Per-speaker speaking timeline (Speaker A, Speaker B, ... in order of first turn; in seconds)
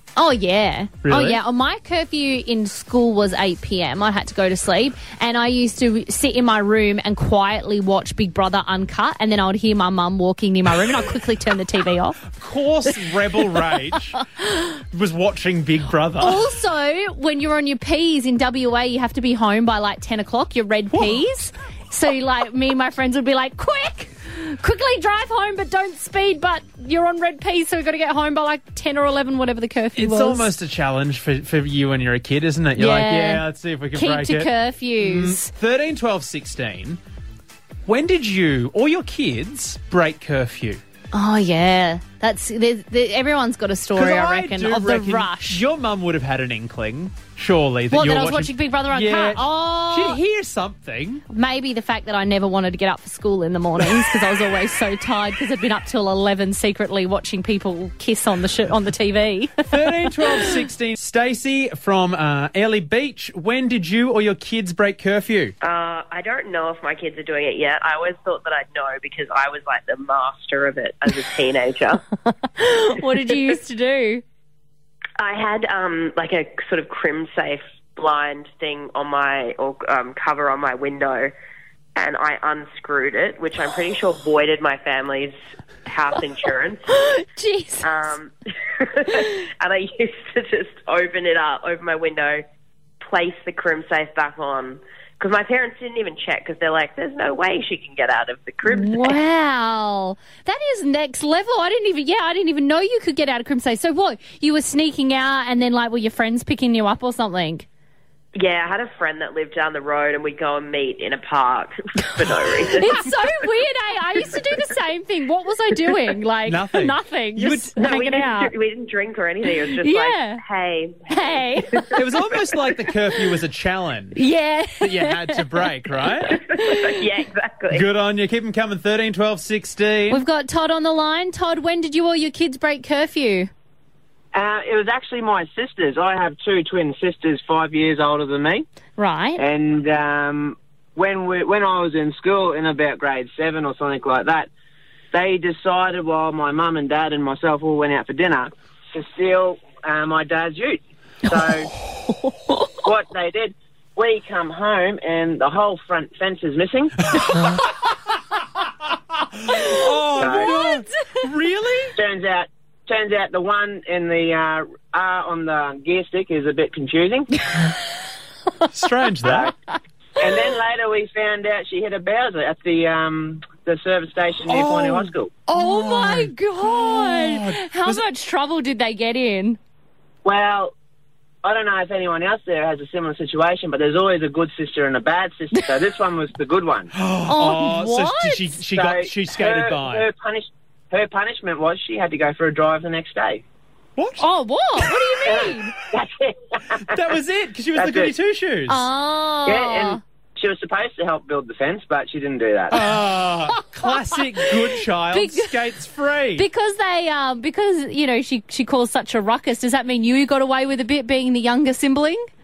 Speaker A: 0.2-12.2, 13.4-13.8, 16.2-30.5, 32.8-35.5, 41.1-45.6, 47.9-50.2, 51.3-60.5, 72.4-74.2, 86.9-87.9, 98.7-107.7, 112.8-118.5, 119.6-120.4, 121.1-121.8, 124.2-125.7, 126.3-127.0, 130.1-133.5, 139.0-139.4, 152.1-152.7, 159.6-161.2, 167.5-167.8, 175.5-179.6, 187.3-188.6, 194.2-195.7, 198.7-200.0, 203.6-204.2, 205.1-205.6, 206.4-212.2
Speaker B: 1.0-1.4, 12.3-16.5, 20.9-21.2, 30.0-37.0, 37.9-40.8, 44.0-51.2, 53.8-54.2, 59.7-65.5, 116.5-117.7, 121.9-124.2, 124.8-126.4, 127.7-130.2, 157.2-157.9, 159.1-162.0, 168.7-169.5, 174.5-178.1, 186.9-190.1, 194.0-194.3, 196.7-198.9, 202.7-206.5
Speaker C: 65.6-72.0, 75.2-81.3, 82.0-86.9, 87.8-92.4, 93.0-99.2, 108.3-113.5, 117.8-122.4, 126.3-127.9
Speaker D: 134.3-138.7, 139.4-144.5, 145.1-151.7, 152.8-157.0, 160.2-160.6, 162.0-167.3, 169.2-169.5, 170.2-175.3, 180.2-180.7, 181.4-186.9, 188.8-193.4, 195.2-197.0, 197.8-198.1, 199.4-202.8